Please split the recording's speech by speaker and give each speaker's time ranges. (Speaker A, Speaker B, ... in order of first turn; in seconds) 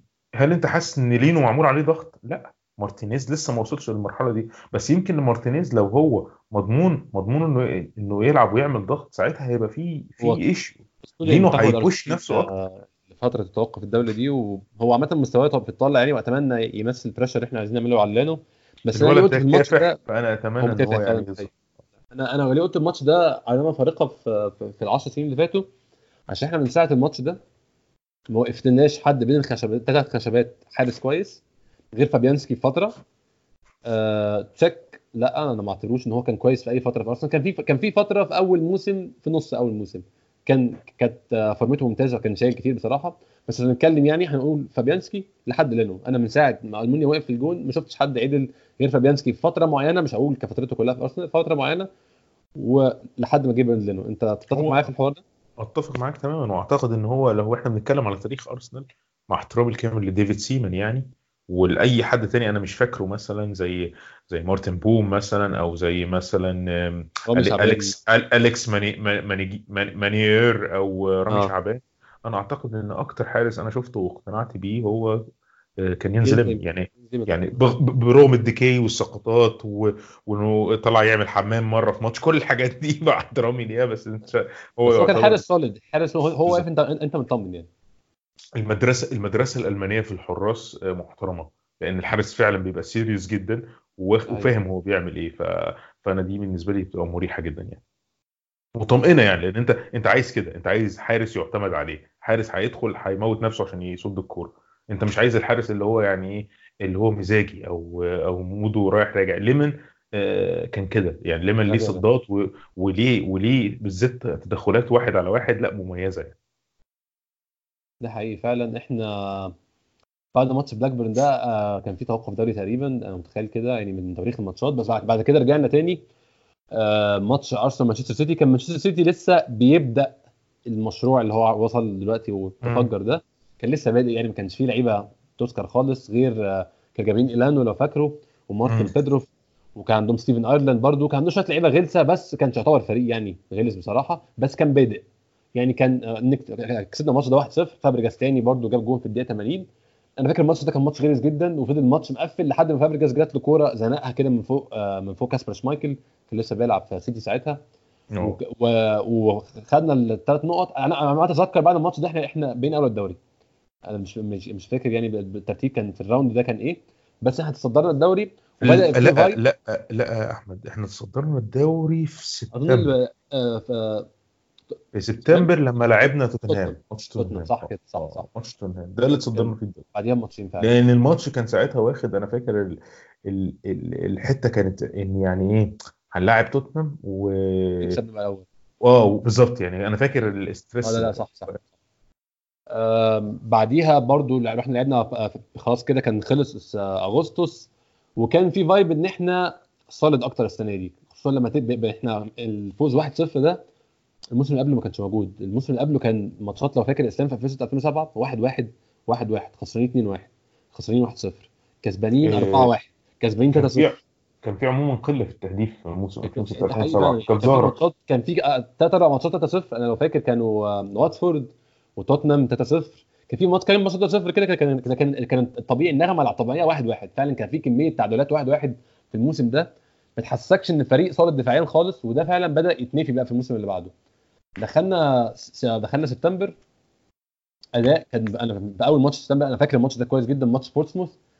Speaker A: 0.4-12.5, 18.9-21.5, 54.5-54.9, 55.6-75.2, 75.8-85.4, 88.6-97.8, 98.8-116.3, 132.6-132.9, 138.7-138.9, 158.1-158.4, 168.6-172.9, 174.9-179.8, 180.6-188.0, 188.8-191.6, 212.2-212.7, 213.5-217.8
Speaker B: 11.1-20.0, 20.6-21.5, 22.1-25.7, 26.3-27.4, 28.3-31.4, 31.9-32.9, 33.9-51.9, 52.6-55.2, 67.3-67.9, 76.2-77.4, 84.9-87.7, 111.7-112.0, 118.0-119.5, 120.3-126.0, 126.8-145.0, 145.6-149.7, 150.2-157.6, 158.2-163.2, 163.9-169.4, 172.5-174.1, 176.5-178.3, 179.3-180.7, 187.8-188.5, 190.8-191.6, 192.7-203.6, 204.3-214.0, 216.2-233.9, 234.6-236.6, 237.8-241.2